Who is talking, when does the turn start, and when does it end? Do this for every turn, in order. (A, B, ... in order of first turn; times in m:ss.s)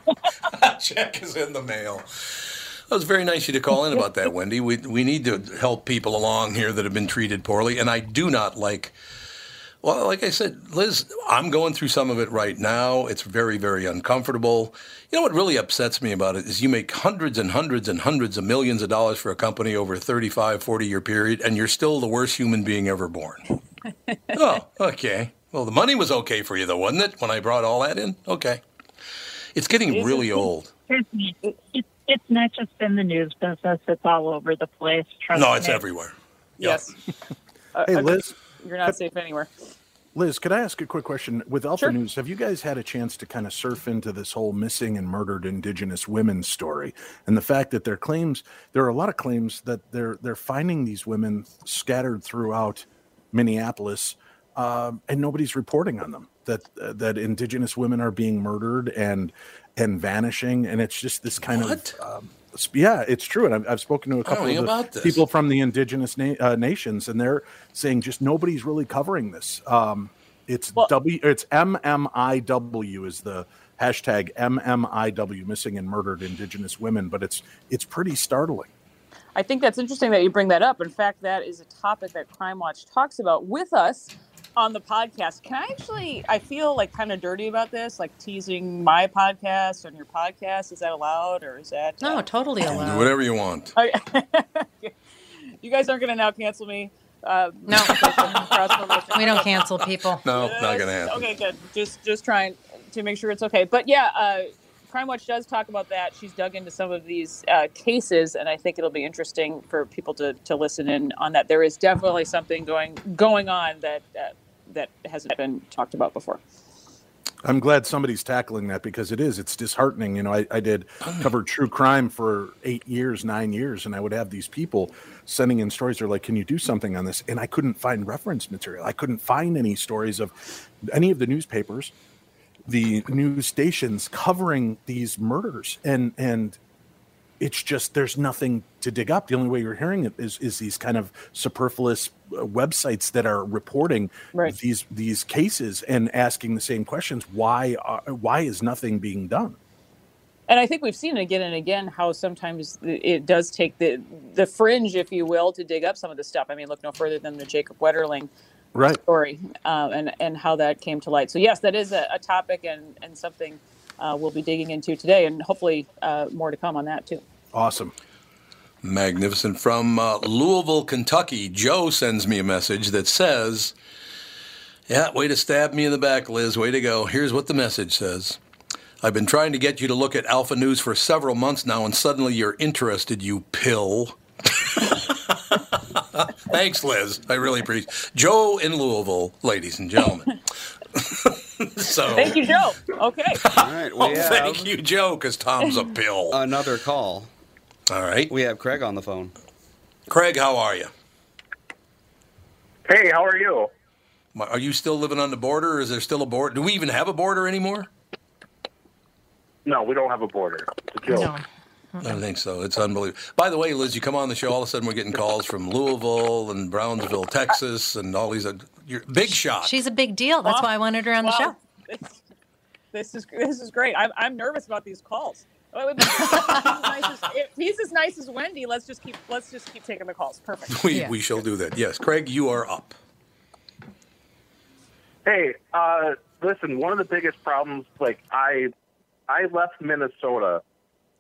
0:00.5-0:09.0 A
0:09.8-0:23.4 A
0:24.3-0:28.6 A
0:29.6-0:30.7 A
0:29.9-0:30.4 B
0:30.9-0:35.8 C
0:35.3-0:36.8 A
0:36.6-0:37.0 B
0:37.7-0:39.5 B
0:37.9-0:39.0 D
0:40.1-1:18.7 D
1:01.5-1:02.0 A
1:04.3-1:05.2 A
1:19.3-1:32.2 B
1:32.0-1:33.1 E
1:32.6-1:33.7 A
1:33.8-1:35.0 B
1:35.6-1:56.4 B
1:37.7-1:38.5 E
1:37.9-1:38.2 A
1:39.1-1:40.2 E
1:40.2-1:41.2 A
1:57.4-2:11.9 D
2:12.7-2:16.6 D
2:17.4-2:29.6 D
2:30.5-2:38.3 B
2:38.7-2:39.0 D
2:39.0-2:47.2 B
2:47.5-2:47.9 D
2:48.8-2:53.7 A
2:54.9-2:58.4 A
2:59.0-3:12.4 A
3:12.1-3:13.4 B
3:13.5-3:14.7 F
3:13.6-3:16.4 A
3:16.3-3:17.3 F
3:17.9-3:18.3 A
3:18.3-3:19.3 F
3:20.1-3:20.9 A
3:22.9-3:23.7 G
3:24.3-3:27.9 A
3:29.7-3:31.4 G
3:31.0-3:32.2 E
3:32.0-3:39.8 A
3:39.6-3:41.6 E
3:40.4-3:42.2 B
3:42.9-3:50.8 B
3:50.7-3:53.0 A
3:55.3-3:58.7 G
3:59.3-4:00.6 G